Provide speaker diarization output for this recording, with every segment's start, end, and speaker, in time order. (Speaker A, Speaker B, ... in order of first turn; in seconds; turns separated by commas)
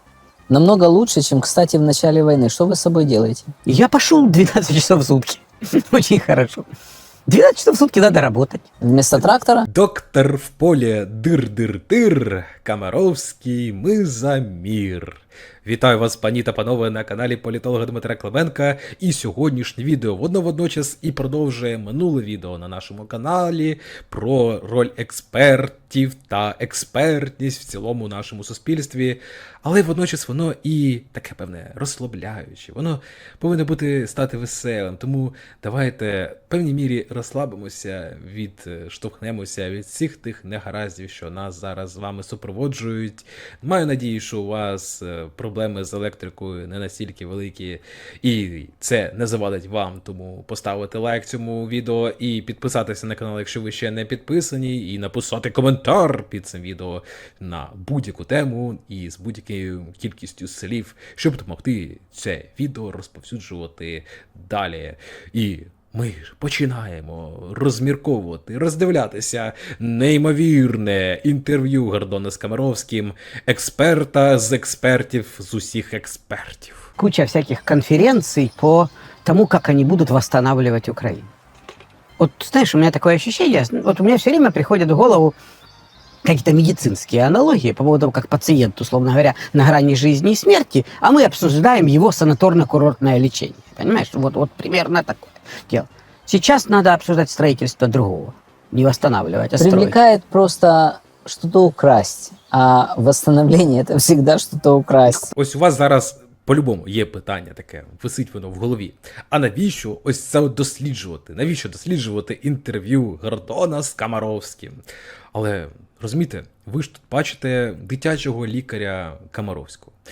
Speaker A: 0.5-3.5, Speaker B: 3.6-6.6, Speaker B: 7.3-8.6, Speaker A: 8.8-9.7, Speaker C: 9.7-76.9, Speaker B: 77.0-81.3, Speaker B: 82.2-85.3, Speaker B: 86.2-99.9, Speaker A: 99.6-105.3, Speaker C: 105.3-114.8, Speaker C: 115.3-119.9